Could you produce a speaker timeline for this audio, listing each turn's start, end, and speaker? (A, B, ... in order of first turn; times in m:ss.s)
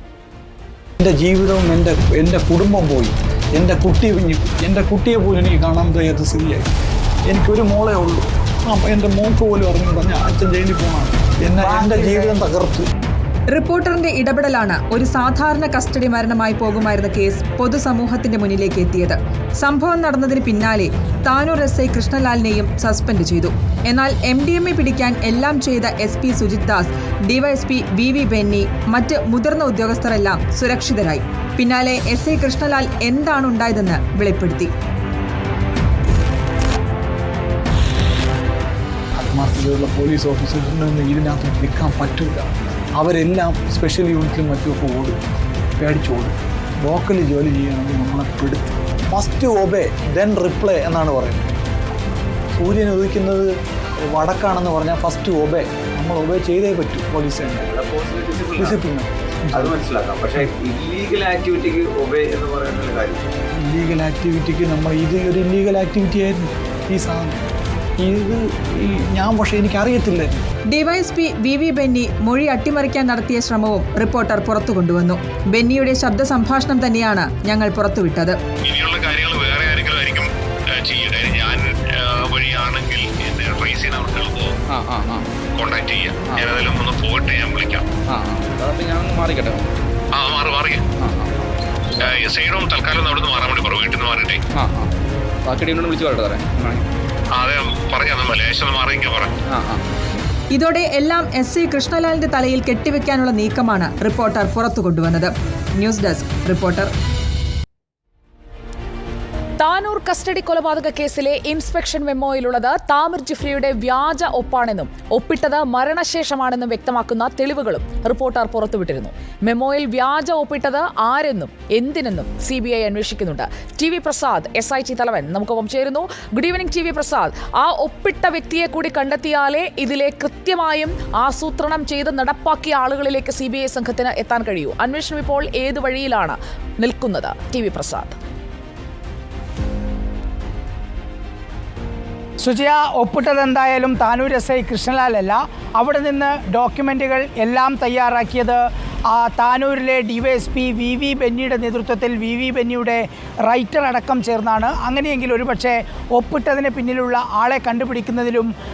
0:01.0-0:06.7 A
0:07.3-0:12.8 A
0:13.5-0:34.7 B
0:39.2-0:45.2 A
0:45.8-0:51.6 A
0:52.5-0:57.7 A
0:57.6-0:58.8 C
0:58.6-0:59.8 A
0:59.6-1:03.3 C
1:03.6-1:07.4 A
1:08.0-1:10.4 A
1:10.7-1:18.4 B
1:18.6-1:24.6 D
1:24.7-1:25.3 E
1:25.5-1:27.9 D
1:28.1-1:29.7 E
1:30.1-1:30.8 D
1:31.0-1:31.3 E
1:32.0-1:34.4 D
1:34.6-1:34.9 E
1:35.5-1:36.8 E
1:37.3-1:39.3 D
1:39.5-1:39.8 E
1:40.5-1:46.9 B
1:49.6-2:18.2 F
2:22.4-2:38.5 G